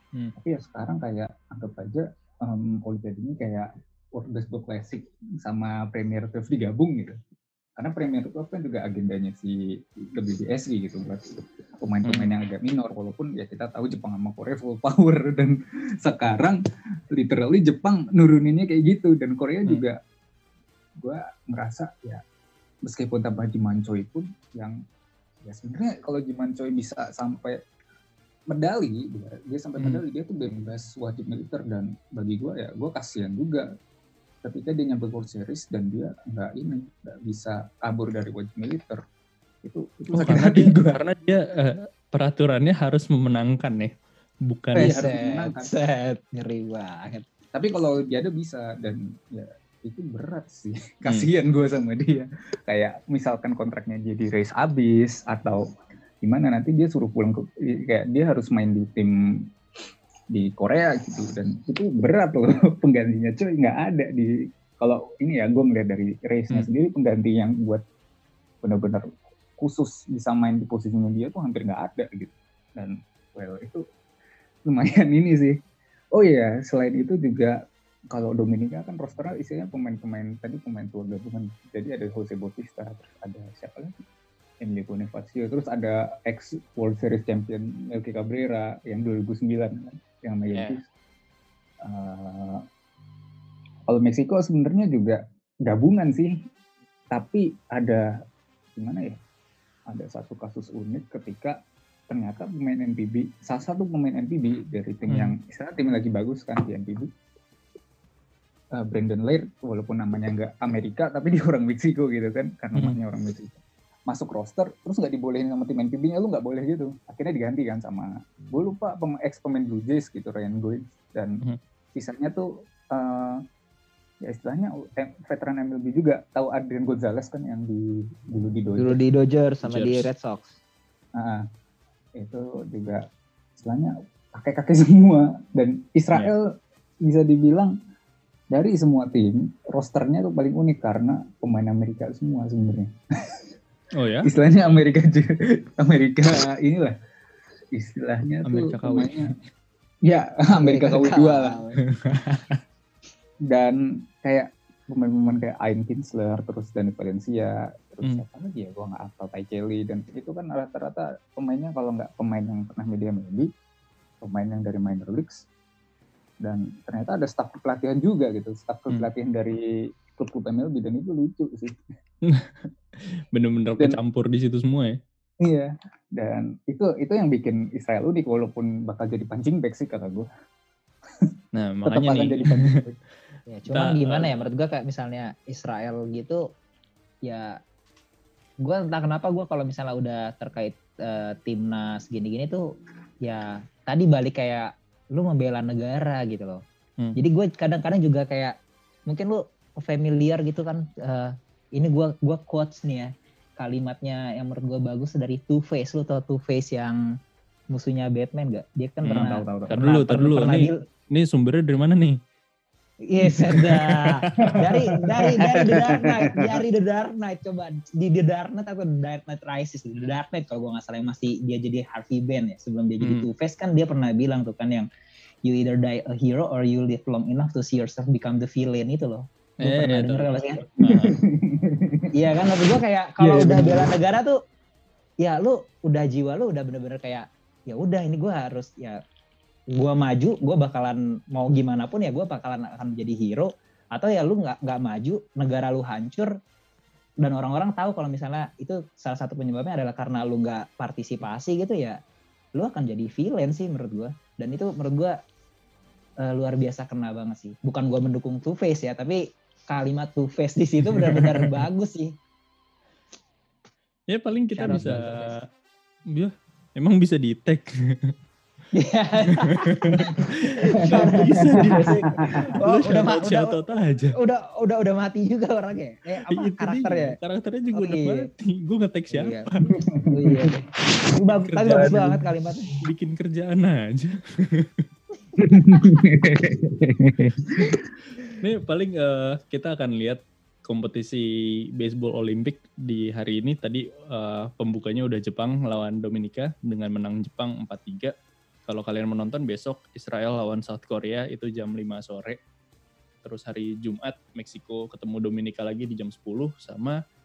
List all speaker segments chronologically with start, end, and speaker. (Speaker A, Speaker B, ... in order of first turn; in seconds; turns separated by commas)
Speaker A: 0.4-7.2, Speaker A: 7.8-9.6, Speaker A: 10.1-16.6, Speaker B: 12.1-12.3, Speaker A: 17.1-20.0, Speaker A: 21.0-22.2, Speaker A: 22.9-24.8, Speaker A: 25.4-27.6, Speaker A: 28.5-33.7, Speaker A: 34.4-39.0, Speaker A: 39.6-41.0, Speaker B: 40.1-43.9, Speaker B: 44.5-45.0, Speaker A: 44.8-45.7, Speaker C: 44.8-47.2, Speaker A: 47.5-55.6, Speaker A: 56.2-59.1, Speaker A: 60.3-67.8, Speaker A: 68.6-73.8, Speaker A: 74.7-75.6, Speaker A: 76.2-77.6, Speaker A: 78.1-84.0, Speaker A: 84.6-90.8, Speaker B: 90.5-90.8, Speaker A: 91.8-92.6, Speaker A: 93.9-96.3, Speaker A: 97.1-98.0, Speaker A: 98.8-99.2, Speaker A: 99.9-101.6, Speaker A: 102.1-107.1, Speaker B: 105.1-105.3, Speaker A: 108.8-121.4, Speaker A: 122.0-123.4, Speaker A: 124.2-129.0, Speaker C: 128.8-130.6, Speaker B: 129.7-130.1, Speaker A: 131.2-131.4, Speaker A: 132.2-133.0, Speaker A: 133.6-136.5, Speaker A: 137.1-137.7, Speaker A: 138.5-143.5, Speaker B: 144.0-144.3, Speaker A: 144.2-146.9, Speaker A: 147.8-149.3, Speaker B: 148.4-149.3, Speaker A: 150.1-151.6, Speaker C: 150.6-151.8, Speaker B: 152.0-152.6, Speaker A: 153.5-163.5, Speaker A: 164.2-165.5, Speaker A: 166.4-171.8, Speaker B: 172.2-175.0, Speaker A: 175.4-180.3, Speaker B: 181.6-182.8, Speaker A: 181.9-183.0, Speaker C: 183.5-186.4, Speaker B: 183.7-184.3, Speaker C: 187.3-187.6, Speaker C: 188.6-192.6, Speaker C: 193.2-196.6, Speaker C: 197.2-198.6, Speaker C: 199.1-207.0, Speaker C: 207.7-210.8, Speaker B: 209.1-212.2, Speaker C: 213.1-224.9, Speaker B: 213.5-214.5, Speaker A: 214.3-216.6, Speaker B: 223.0-223.3, Speaker C: 225.4-230.7, Speaker B: 229.6-231.2, Speaker A: 230.9-232.1, Speaker C: 232.1-234.4, Speaker A: 233.2-233.9, Speaker C: 235.2-239.0, Speaker C: 239.7-246.3, Speaker C: 247.2-252.0, Speaker C: 252.6-255.2, Speaker C: 256.2-262.1, Speaker B: 260.9-261.6, Speaker B: 264.1-265.4, Speaker C: 264.5-265.4, Speaker A: 264.7-265.0, Speaker B: 266.1-268.1, Speaker C: 268.7-273.6, Speaker B: 269.3-274.2, Speaker A: 271.0-272.5, Speaker C: 274.1-277.2, Speaker B: 276.3-279.7, Speaker C: 277.7-278.2, Speaker C: 279.1-279.5, Speaker A: 279.9-280.5, Speaker C: 280.1-282.8, Speaker B: 281.3-282.1, Speaker A: 281.7-282.2, Speaker B: 282.8-284.9, Speaker A: 285.4-287.9, Speaker B: 288.4-291.3, Speaker B: 291.8-298.1, Speaker B: 298.7-302.4, Speaker B: 303.2-307.0